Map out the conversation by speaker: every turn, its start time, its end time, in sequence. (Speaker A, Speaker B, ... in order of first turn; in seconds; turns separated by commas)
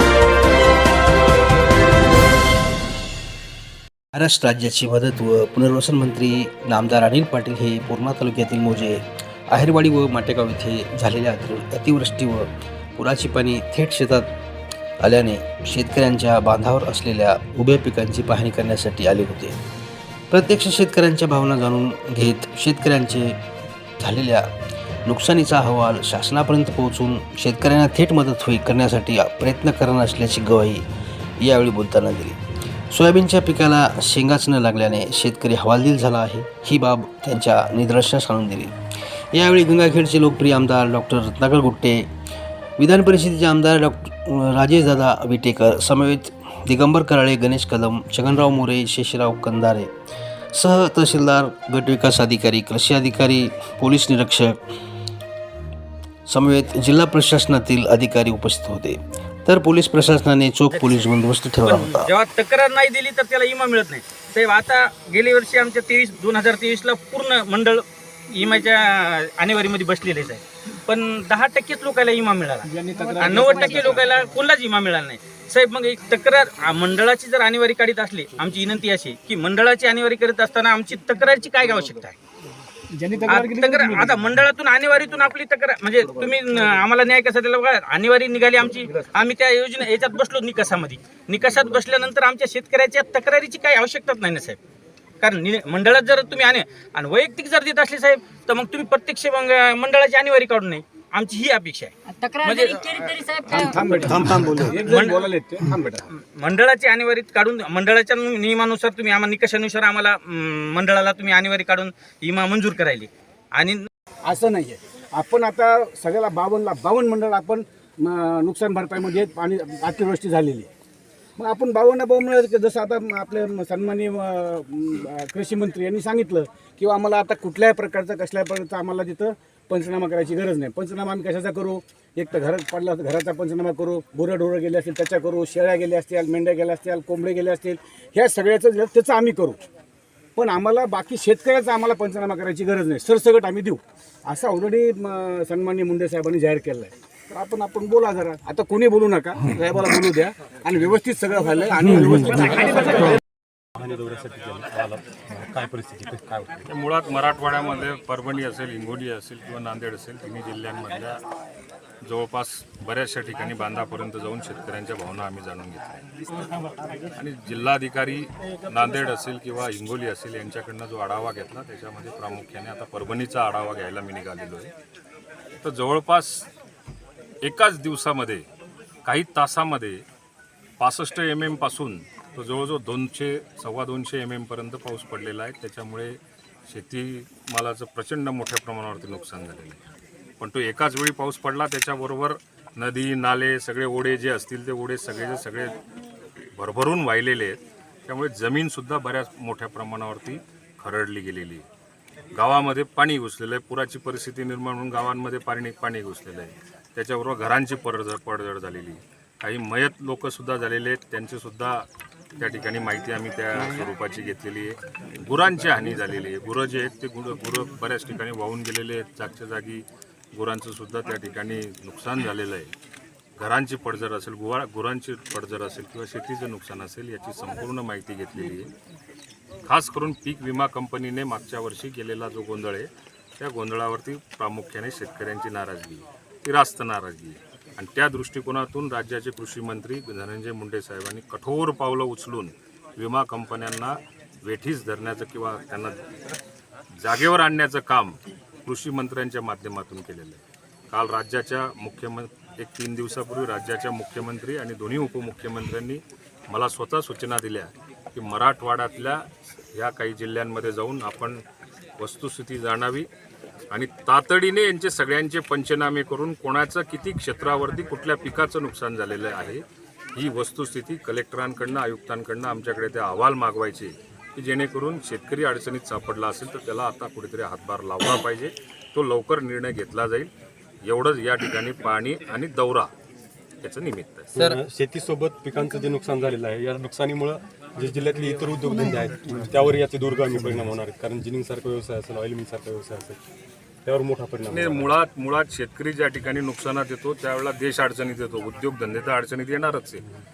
Speaker A: 4.1-14.3, Speaker A: 15.0-19.6, Speaker A: 20.3-23.4, Speaker A: 24.0-24.5, Speaker A: 25.0-30.8, Speaker A: 31.4-32.4, Speaker A: 32.9-38.7, Speaker A: 39.3-42.1, Speaker A: 42.8-49.9, Speaker A: 50.5-54.6, Speaker A: 56.3-62.1, Speaker B: 60.7-82.2, Speaker C: 72.6-74.1, Speaker D: 73.1-73.8, Speaker C: 82.9-84.2, Speaker B: 83.2-94.6, Speaker B: 95.2-103.2, Speaker D: 102.1-104.1, Speaker C: 103.5-106.0, Speaker A: 104.0-104.7, Speaker B: 104.8-113.9, Speaker C: 114.2-120.7, Speaker C: 121.4-139.6, Speaker C: 140.3-153.2, Speaker E: 153.8-156.7, Speaker F: 156.7-161.2, Speaker F: 162.0-166.0, Speaker F: 167.1-174.7, Speaker F: 175.6-176.5, Speaker F: 177.4-178.4, Speaker F: 179.0-180.0, Speaker F: 180.8-189.9, Speaker F: 190.4-195.8, Speaker F: 196.5-201.7, Speaker F: 202.3-211.9, Speaker F: 212.4-222.7, Speaker F: 223.4-228.7, Speaker F: 229.6-232.9, Speaker F: 233.4-246.1, Speaker F: 247.0-261.4, Speaker F: 262.0-263.1, Speaker F: 263.7-269.6, Speaker F: 270.1-280.3, Speaker F: 280.8-282.9, Speaker F: 283.6-284.3, Speaker E: 284.3-293.2, Speaker E: 293.8-295.0, Speaker F: 294.5-300.0